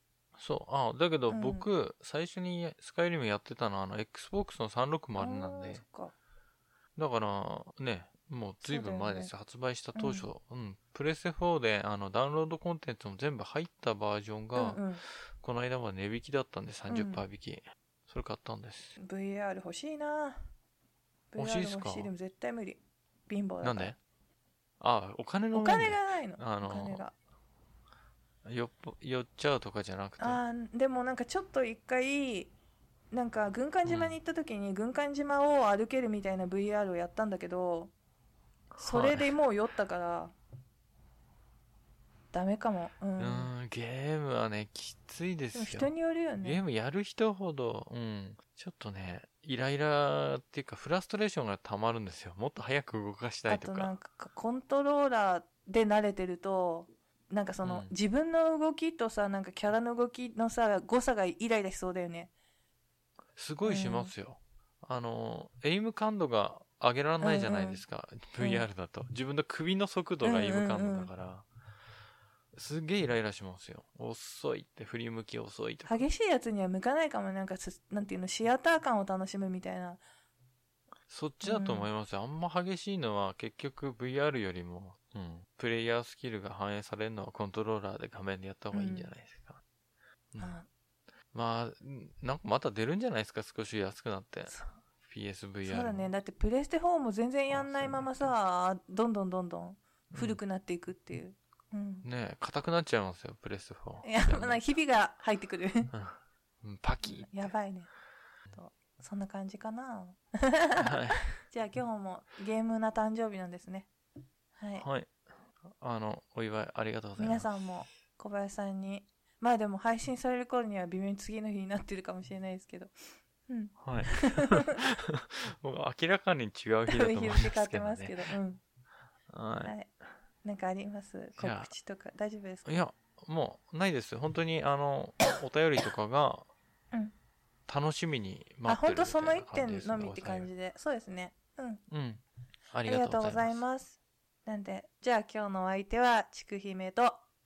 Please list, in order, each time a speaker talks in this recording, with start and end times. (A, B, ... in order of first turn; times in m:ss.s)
0:00.4-0:05.8 A
0:01.3-0:01.7 B
0:05.2-0:06.2 B
0:07.0-0:14.8 A
0:08.6-0:09.3 B
0:10.0-0:10.3 B
0:14.6-0:15.0 B
0:15.4-0:19.0 A
0:16.9-0:17.2 B
0:19.0-0:20.4 B
0:21.3-0:24.0 B
0:21.4-0:22.1 A
0:23.6-0:24.0 A
0:24.8-0:27.0 A
0:25.5-0:27.1 B
0:28.4-0:30.4 A
0:30.2-0:32.5 B
0:33.1-0:37.9 B
0:33.9-0:34.2 A
0:38.8-0:39.3 A
0:38.8-0:40.4 B
0:42.3-0:43.5 B
0:43.2-0:53.9 A
0:45.5-0:46.6 B
0:53.5-1:02.3 B
0:57.6-0:57.9 A
1:03.4-1:11.5 A
1:03.6-1:04.1 B
1:07.2-1:07.8 B
1:08.4-1:08.6 B
1:10.2-1:11.1 B
1:12.5-1:16.0 A
1:15.9-1:20.0 B
1:21.1-1:29.6 A
1:21.4-1:21.9 B
1:28.7-1:29.1 B
1:30.4-1:30.7 B
1:31.3-1:36.1 A
1:35.6-1:42.0 B
1:37.5-1:38.3 A
1:40.1-1:40.4 A
1:42.0-1:44.6 A
1:44.0-1:45.9 B
1:45.9-1:47.5 A
1:47.0-1:47.9 B
1:48.5-1:53.9 B
1:50.8-1:51.3 A
1:54.6-1:54.9 B
1:54.8-1:55.1 A
1:55.7-1:57.6 A
1:57.2-2:02.9 B
2:03.5-2:04.8 B
2:03.8-2:08.2 A
2:06.9-2:08.6 B
2:09.3-2:09.7 A
2:09.6-2:09.9 B
2:10.4-2:12.8 B
2:11.4-2:11.7 A
2:12.7-2:16.5 A
2:17.7-2:20.5 A
2:18.7-2:21.8 B
2:21.9-2:23.6 A
2:22.9-2:27.2 B